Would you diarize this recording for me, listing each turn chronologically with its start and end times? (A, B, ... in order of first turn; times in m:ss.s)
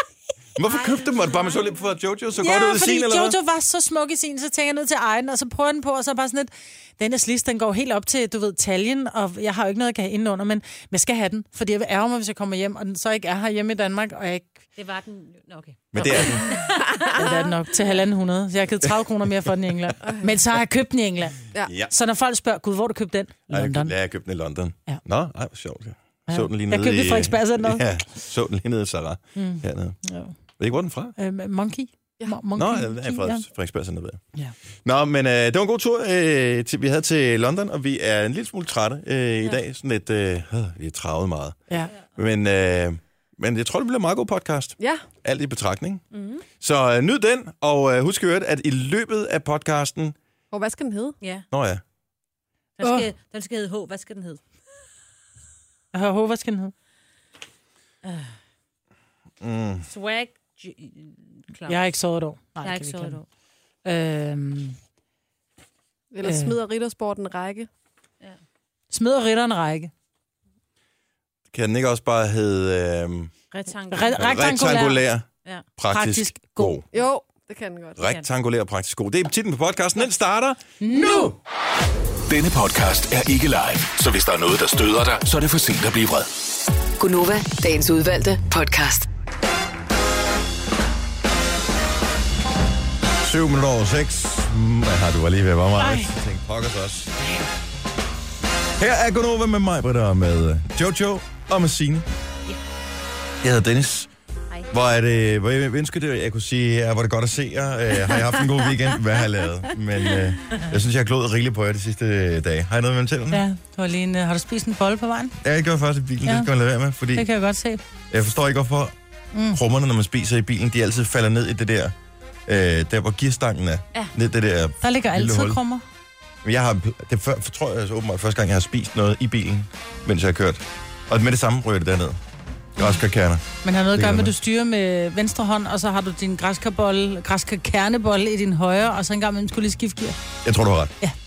0:00.6-0:03.4 A
0:00.7-0:01.7 B
0:02.4-0:14.5 C
0:14.8-0:16.9 B
0:15.9-0:16.5 A
0:17.1-0:23.9 C
0:21.6-0:21.9 A
0:23.5-0:30.0 A
0:26.3-0:27.9 C
0:29.4-0:30.3 C
0:30.6-0:31.2 A
0:31.2-0:33.4 C
0:32.5-0:34.2 A
0:34.8-0:41.6 A
0:42.2-0:46.0 A
0:46.1-0:46.4 B
0:46.6-0:50.2 A
0:50.5-0:51.1 D
0:51.2-0:51.4 B
0:51.5-0:51.8 A
0:52.8-0:54.4 B
0:52.8-0:53.1 C
0:55.9-0:56.7 C
0:58.0-0:58.3 B
0:59.4-0:59.8 A
0:59.9-1:01.8 B
1:01.7-1:03.2 C
1:02.6-1:03.2 B
1:03.8-1:04.8 C
1:06.1-1:07.7 D
1:06.2-1:06.6 C
1:08.9-1:09.9 C
1:11.5-1:13.3 A
1:13.5-1:14.3 B
1:13.9-1:15.0 C
1:14.1-1:15.2 A
1:15.8-1:16.8 A
1:15.9-1:16.8 C
1:16.9-1:18.0 D
1:18.0-1:21.0 A
1:20.8-1:21.3 C
1:22.3-1:26.3 E
1:27.0-1:29.1 F
1:33.2-1:37.1 A
1:35.8-1:36.1 C
1:38.8-1:42.1 A
1:43.4-1:44.1 A
1:44.7-1:53.4 A
1:53.3-1:55.4 C
1:55.4-1:57.3 A
1:56.2-1:56.5 C
1:57.2-1:57.8 C
1:58.1-1:58.9 A
1:59.3-1:59.6 C
1:59.5-2:01.9 A
2:02.5-2:05.6 A
2:04.8-2:05.8 C
2:06.4-2:12.2 A
2:12.8-2:14.3 A
2:13.6-2:20.2 C
2:20.4-2:20.9 A